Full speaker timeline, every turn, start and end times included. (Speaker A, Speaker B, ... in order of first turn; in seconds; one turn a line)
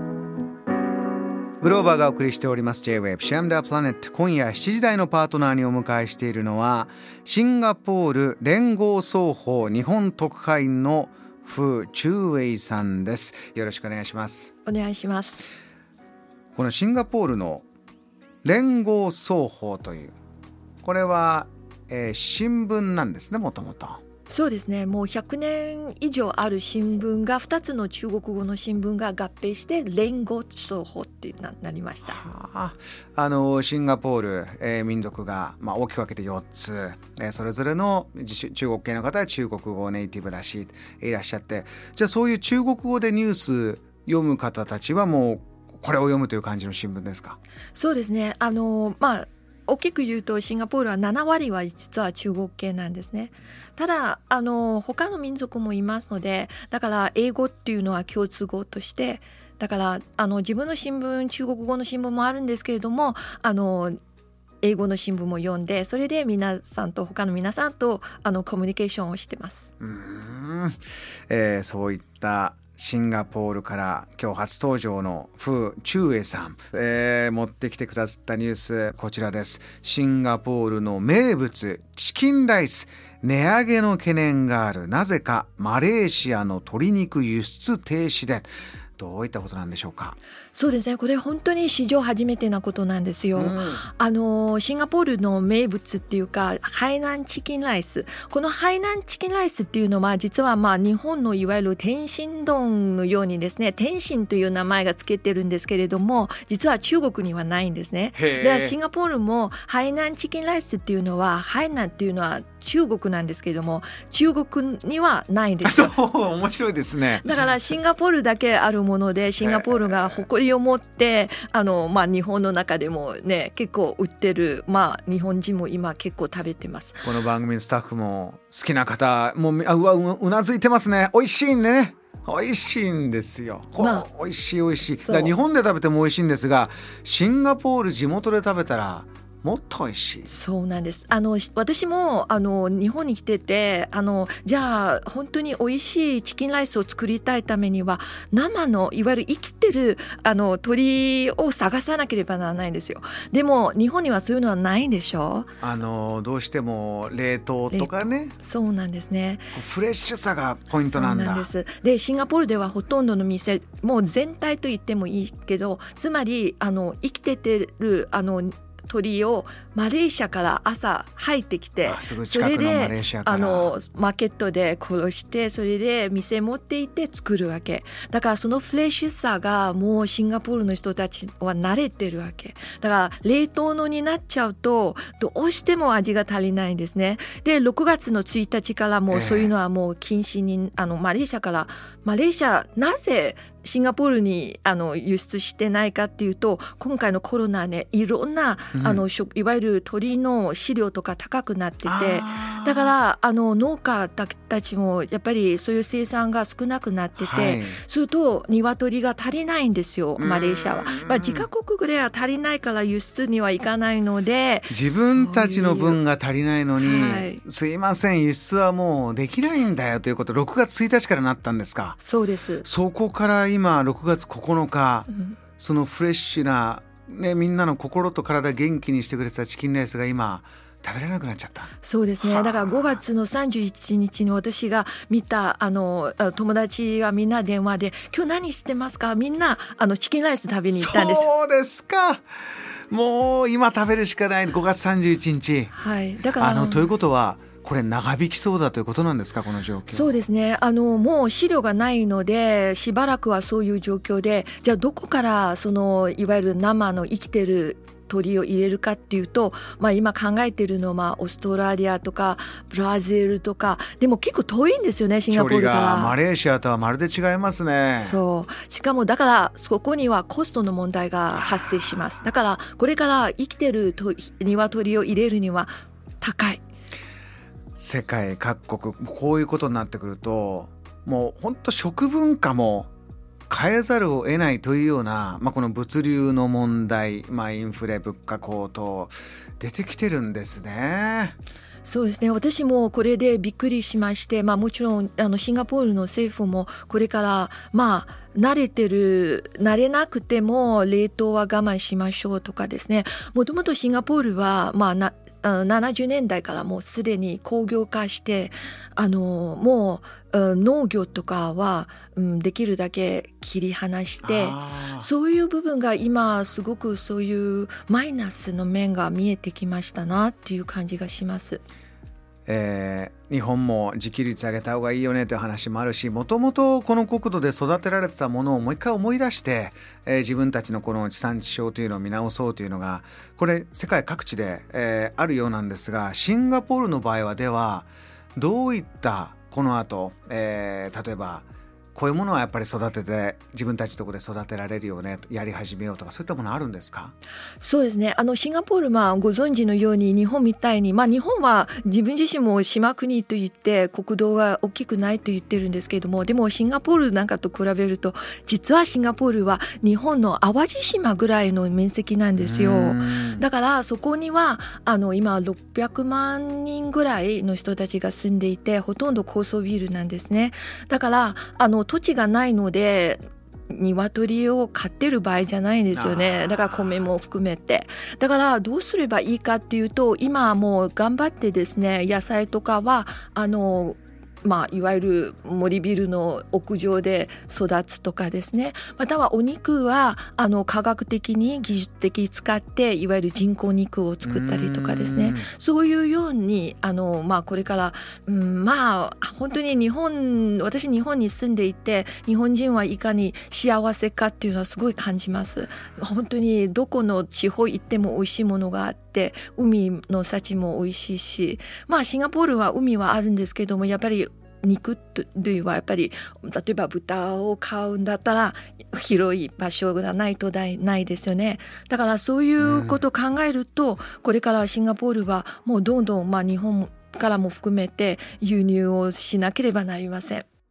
Speaker A: 1.6-14.5
Speaker B: 14.6-15.5
Speaker A: 16.6-17.7
Speaker A: 18.4-20.1
Speaker A: 20.8-24.0
Speaker B: 24.3-32.2
Speaker A: 32.0-47.4
Speaker B: 47.7-64.0
Speaker B: 64.6-69.7
Speaker A: 69.8-90.2
Speaker B: 90.5-115.9
Speaker A: 93.3-93.9
Speaker A: 108.2-108.8
Speaker A: 115.6-117.5
Speaker B: 117.2-127.1
Speaker A: 119.4-120.2
Speaker A: 127.0-140.3
Speaker B: 133.8-134.1
Speaker B: 134.8-135.3
Speaker B: 140.3-155.5
Speaker A: 155.6-158.3
Speaker B: 157.7-159.6
Speaker A: 159.5-161.5
Speaker B: 160.8-216.0
Speaker A: 171.8-173.7
Speaker A: 189.1-189.5
Speaker A: 198.7-199.0
Speaker A: 201.8-203.0
Speaker A: 207.2-207.8
Speaker A: 210.2-211.5
Speaker A: 214.7-222.0
Speaker B: 216.8-217.4
Speaker B: 222.0-222.7
Speaker A: 222.6-233.0
Speaker B: 225.1-225.4
Speaker B: 231.8-241.3
Speaker A: 240.8-242.2
Speaker A: 242.9-245.7
Speaker B: 245.7-247.0
Speaker A: 246.4-250.2
Speaker B: 249.9-266.2
Speaker A: 265.3-268.2
Speaker B: 268.0-276.6
Speaker A: 277.8-282.9
Speaker A: 283.5-291.4
Speaker B: 291.9-321.6
Speaker A: 314.2-315.1
Speaker A: 322.5-347.1
Speaker B: 347.6-430.4
Speaker A: 362.4-363.4
Speaker A: 375.9-377.0
Speaker A: 394.2-395.5
Speaker A: 422.6-423.0